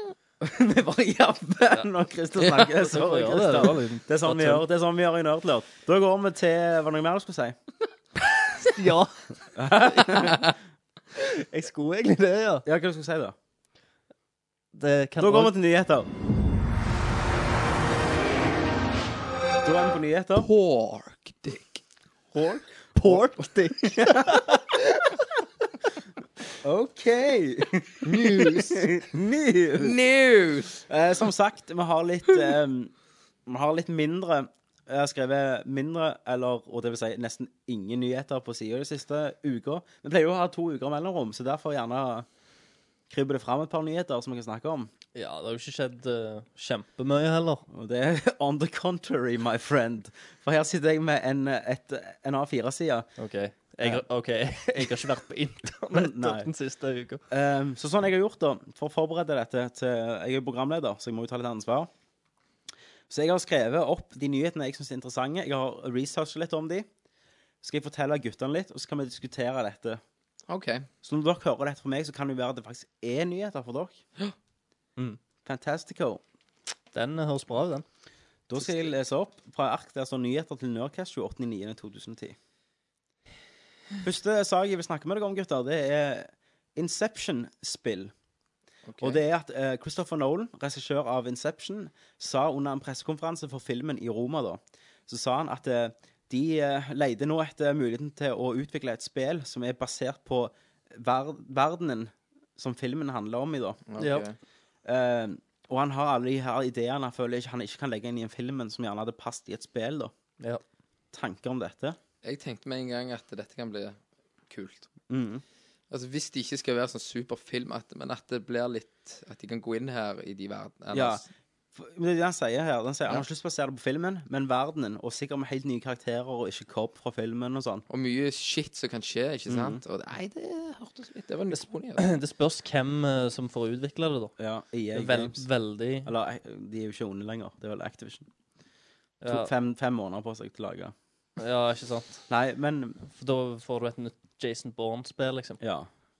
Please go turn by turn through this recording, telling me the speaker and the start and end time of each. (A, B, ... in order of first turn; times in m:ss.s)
0:00.4-0:07.6 A
0:02.8-0:04.6 B
0:08.8-0:09.2 B
0:09.5-0:10.4 A
0:11.2-0:12.6 B
0:12.6-0:13.3 A
0:14.7-0:15.5 B
0:15.2-0:16.1 A
0:19.6-0:20.5 A
0:20.4-0:21.8 C
0:22.3-0:23.0 A
0:23.0-0:24.6 B
0:26.6-0:30.0 A
0:28.0-0:28.9 C
0:29.8-0:30.8 C
0:30.8-0:32.9 A
0:33.5-0:42.2 A
0:43.1-0:44.9 A
0:45.1-0:47.6 B
0:47.7-0:53.1 A
0:53.2-0:57.2 B
0:54.8-0:55.1 A
0:55.9-0:56.5 A
0:57.3-1:01.9 A
1:03.1-1:06.9 A
1:07.6-1:10.0 A
1:10.5-1:10.9 C
1:11.0-1:14.0 A
1:15.4-1:16.2 A
1:16.9-1:17.8 B
1:18.5-1:22.4 A
1:24.0-1:28.1 A
1:28.9-1:29.2 C
1:29.0-1:43.8 A
1:43.9-1:44.3 C
1:44.0-1:44.2 B
1:44.8-1:50.1 A
1:51.1-1:52.0 A
1:52.2-1:54.0 C
1:54.5-1:54.9 C
1:55.1-1:55.4 A
1:55.9-2:01.2 C
2:00.9-2:01.2 A
2:01.7-2:07.8 A
2:07.9-2:12.0 C
2:09.5-2:09.8 A
2:11.5-2:14.3 B
2:14.4-2:15.5 A
2:14.9-2:16.1 B
2:16.0-2:18.3 A
2:19.2-2:19.5 B
2:19.2-2:20.9 A
2:21.4-2:22.2 B
2:22.3-2:23.0 A
2:23.1-2:25.6 B
2:25.6-2:25.9 A